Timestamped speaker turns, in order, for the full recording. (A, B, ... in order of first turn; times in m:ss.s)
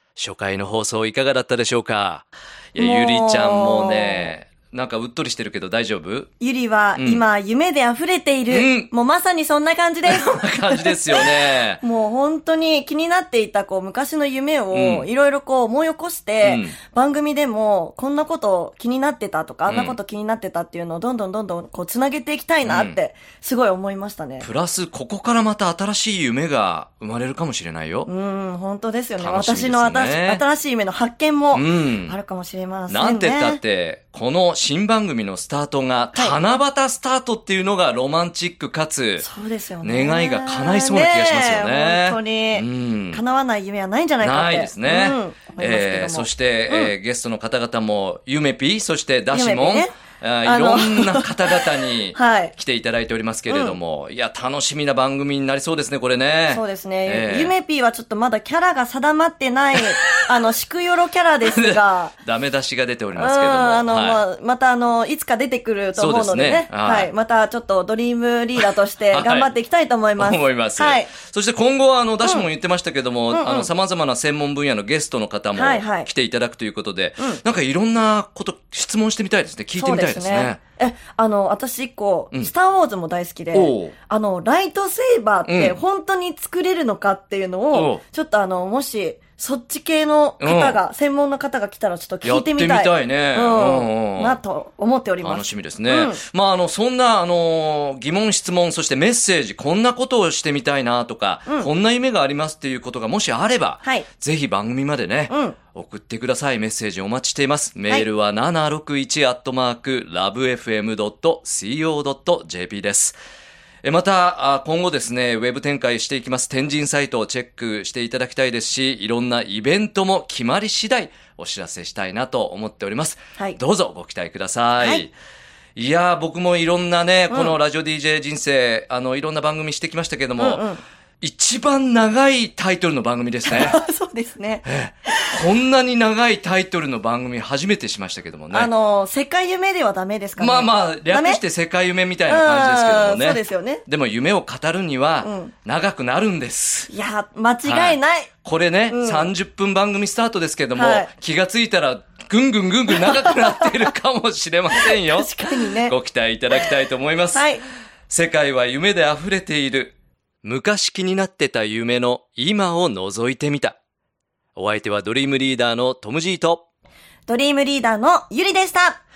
0:00.2-0:06.3 A
0:02.8-0:04.3 B
0:06.4-0:24.5 B
0:08.5-0:08.9 A
0:10.1-0:11.8 A
0:14.7-0:15.1 A
0:16.4-0:16.8 A
0:19.7-0:20.0 A
0:22.6-0:23.0 A
0:24.4-0:28.1 A
0:28.1-0:33.6 B
0:29.2-0:30.4 A
0:31.5-0:32.2 A
0:32.9-0:39.3 A
0:39.2-0:46.9 B
0:39.8-0:43.2 A
0:44.2-0:57.5 A
0:49.3-0:49.9 B
0:50.4-0:52.5 B
0:53.5-0:53.8 B
0:56.5-1:02.1 B
1:00.0-1:00.3 A
1:01.4-1:04.2 A
1:03.2-1:11.1 B
1:06.0-1:07.1 A
1:09.1-1:09.5 A
1:10.2-1:20.6 A
1:13.3-1:13.7 B
1:15.5-1:16.1 B
1:19.8-1:36.2 B
1:23.5-1:23.9 A
1:25.5-1:25.8 A
1:27.7-1:28.0 A
1:30.4-1:30.8 A
1:32.2-1:34.4 A
1:35.2-1:53.2 A
1:45.3-1:45.6 B
1:53.8-2:05.1 A
2:05.8-2:10.6 A
2:07.3-2:07.6 B
2:10.4-2:10.8 B
2:11.2-2:13.8 A
2:13.4-2:15.4 B
2:14.6-2:18.7 A
2:18.5-2:21.4 B
2:20.4-2:26.9 A
2:22.3-2:23.8 B
2:25.2-2:25.5 B
2:26.9-2:28.3 B
2:27.6-2:37.5 A
2:28.9-2:29.3 B
2:30.8-2:31.1 B
2:32.9-2:33.9 B
2:34.8-2:36.0 B
2:37.3-2:37.6 B
2:38.1-2:43.8 A
2:44.6-2:46.6 A
2:47.3-2:49.0 B